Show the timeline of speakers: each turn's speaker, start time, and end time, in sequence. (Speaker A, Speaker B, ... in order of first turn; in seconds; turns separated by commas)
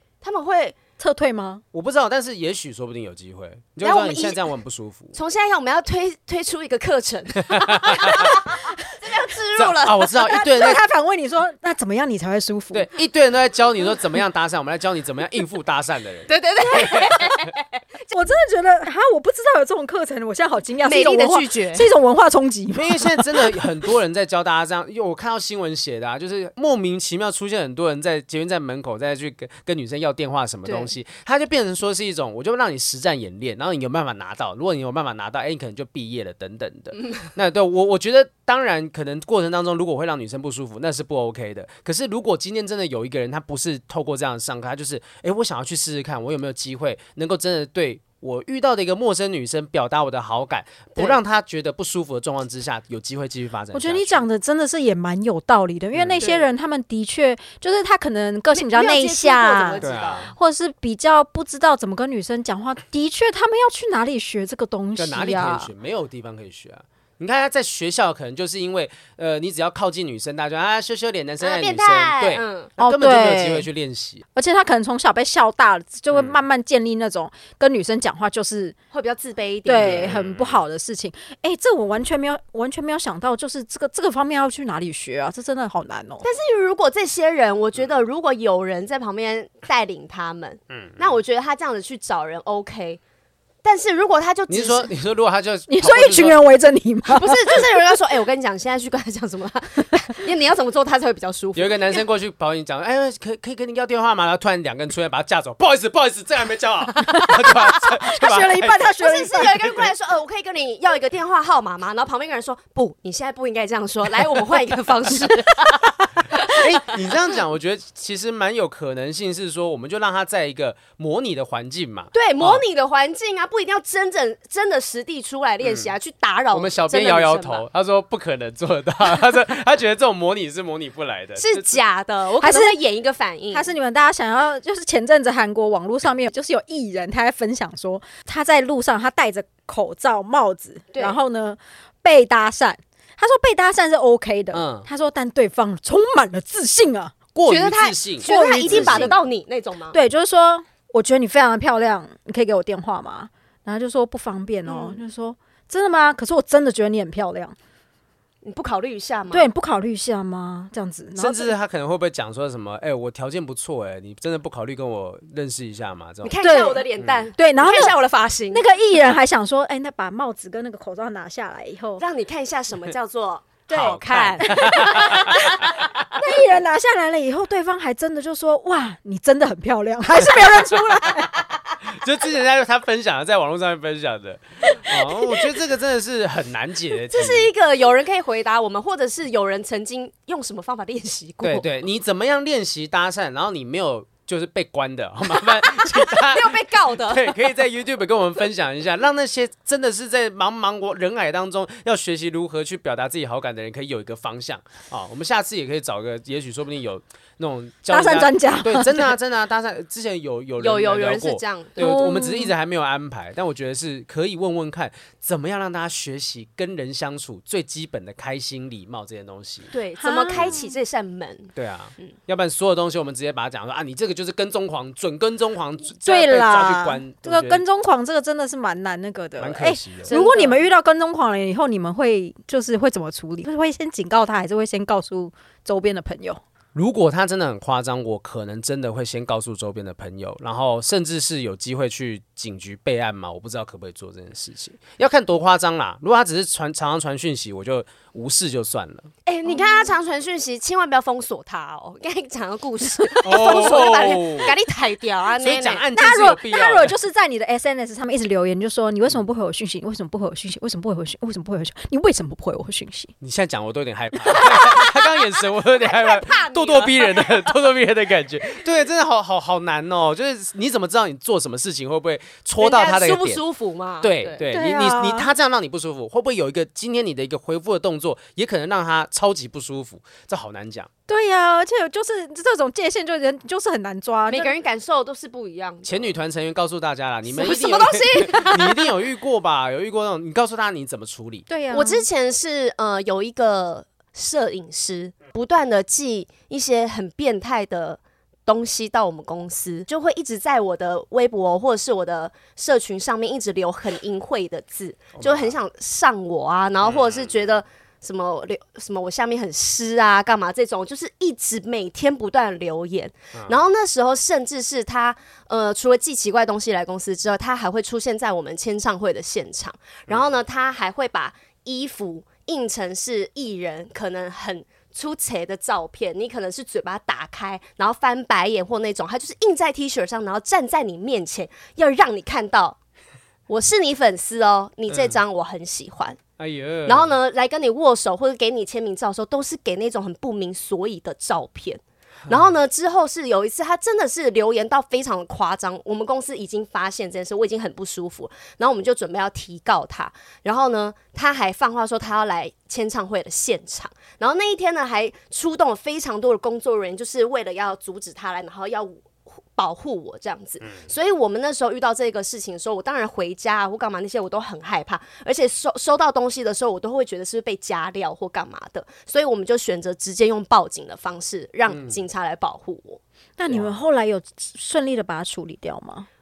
Speaker A: 0.2-0.8, Speaker B: 1.0-1.6, Speaker C: 1.7-5.1, Speaker A: 3.8-4.4, Speaker A: 5.1-10.3, Speaker C: 7.4-8.3, Speaker C: 9.6-10.8, Speaker B: 10.2-12.9, Speaker C: 12.7-17.4, Speaker A: 16.3-17.6, Speaker B: 18.1-23.7, Speaker A: 20.8-21.9, Speaker C: 22.7-54.2, Speaker A: 30.6-30.9, Speaker B: 53.7-65.7, Speaker C: 55.9-56.3, Speaker A: 56.2-56.5, Speaker A: 58.5-60.3, Speaker C: 59.8-60.3, Speaker C: 65.0-74.2, Speaker A: 71.4-72.7, Speaker B: 72.8-73.7, Speaker B: 74.3-78.8, Speaker C: 76.1-76.4, Speaker A: 78.9-80.2, Speaker B: 79.6-86.2, Speaker C: 79.8-80.6, Speaker A: 86.2-93.0, Speaker C: 90.7-91.1, Speaker A: 93.6-94.9, Speaker C: 94.5-96.4, Speaker B: 95.7-97.6, Speaker A: 97.1-102.0, Speaker C: 101.5-109.8, Speaker B: 107.0-109.7, Speaker A: 109.0-116.9, Speaker C: 116.4-122.6, Speaker A: 122.1-127.6, Speaker C: 125.6-125.9, Speaker C: 126.5-131.8, Speaker A: 131.4-133.7, Speaker B: 132.4-132.8, Speaker B: 133.5-147.1, Speaker A: 140.9-141.2, Speaker C: 144.5-144.9, Speaker C: 147.3-149.2, Speaker A: 147.4-150.0, Speaker B: 148.2-149.2, Speaker B: 149.9-157.5, Speaker A: 154.7-155.0, Speaker A: 158.4-159.5, Speaker B: 159.3-161.5, Speaker C: 161.2-166.3, Speaker A: 166.2-168.6, Speaker B: 166.4-167.9, Speaker B: 168.5-172.0, Speaker A: 172.0-175.6, Speaker C: 173.7-176.1, Speaker B: 173.7-175.6, Speaker B: 176.1-181.5, Speaker C: 181.8-187.5, Speaker A: 184.7-185.4, Speaker A: 187.1-191.7, Speaker C: 191.4-219.7, Speaker A: 195.4-197.4, Speaker B: 207.9-209.2, Speaker A: 210.6-211.9, Speaker B: 211.8-212.5, Speaker A: 219.7-222.1, Speaker B: 220.0-220.7, Speaker C: 221.6-227.6, Speaker B: 226.0-236.4, Speaker C: 229.4-230.1, Speaker A: 230.1-230.6, Speaker C: 236.7-249.1, Speaker A: 249.2-255.8, Speaker B: 249.6-249.8, Speaker C: 253.2-254.5, Speaker C: 255.4-256.9, Speaker B: 255.9-263.1, Speaker C: 263.2-273.4, Speaker A: 264.3-267.4, Speaker A: 272.6-274.4, Speaker C: 274.0-280.9, Speaker B: 274.4-275.3, Speaker B: 281.1-284.5, Speaker A: 284.3-286.1, Speaker C: 285.8-291.5, Speaker A: 287.2-288.9, Speaker B: 291.5-292.1, Speaker A: 291.7-332.8, Speaker C: 305.2-305.6, Speaker C: 306.8-307.4, Speaker A: 333.5-336.2, Speaker C: 336.4-337.1, Speaker A: 336.9-373.0, Speaker C: 371.7-372.0, Speaker B: 373.4-376.1, Speaker C: 373.5-373.7